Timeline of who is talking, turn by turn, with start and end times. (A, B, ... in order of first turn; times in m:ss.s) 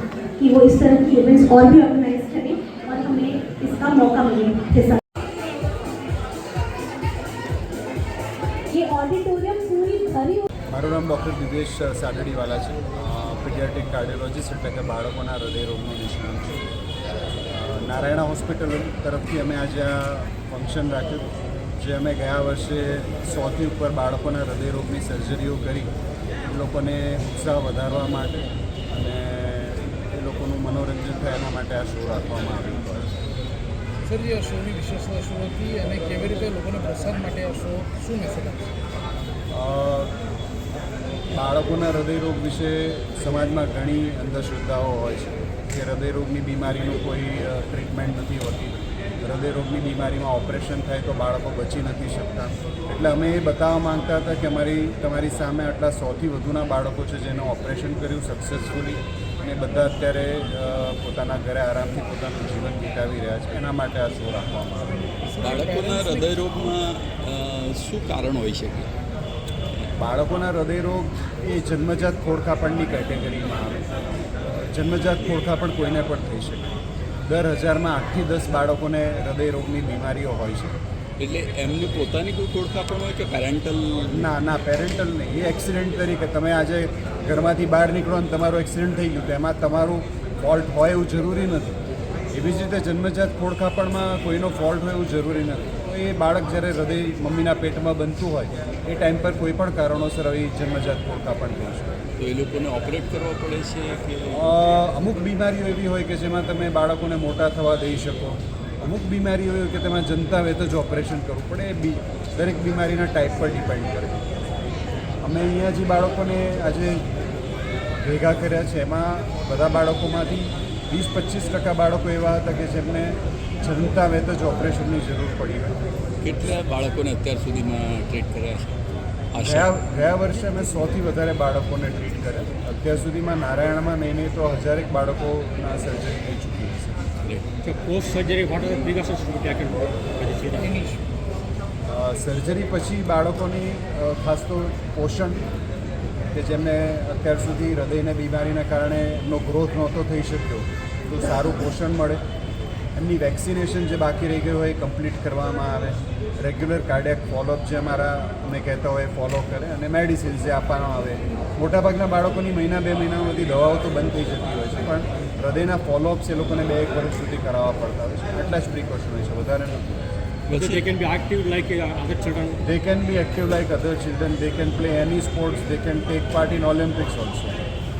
0:00.4-0:05.0 A
0:08.7-0:10.5 A
0:10.7-0:16.7 B
0:17.5-0:25.9 B
0:26.5-0:33.2 B
0:34.0-0:38.7 C
0:39.5-0:40.2 B
0:41.3-1:05.2 B
1:05.3-1:06.6 C
1:05.4-1:08.9 D
1:10.0-1:13.9 B
1:14.5-1:16.7 B
1:17.3-1:20.8 B
1:21.2-1:24.3 D
1:24.1-1:31.8 B
1:32.3-1:42.0 B
1:42.2-1:44.5 D
1:44.3-1:54.2 B
1:55.2-1:57.1 B
1:58.0-2:05.8 B
2:06.2-2:08.7 D
2:09.3-2:09.7 D
2:09.4-2:17.0 B
2:17.2-2:17.5 D
2:17.6-2:20.8 E
2:20.6-2:21.0 C
2:21.9-2:25.5 B
2:26.3-2:32.2 B
2:33.0-2:50.1 B
2:50.5-2:50.9 D
2:50.5-2:52.6 E
2:52.6-2:57.6 B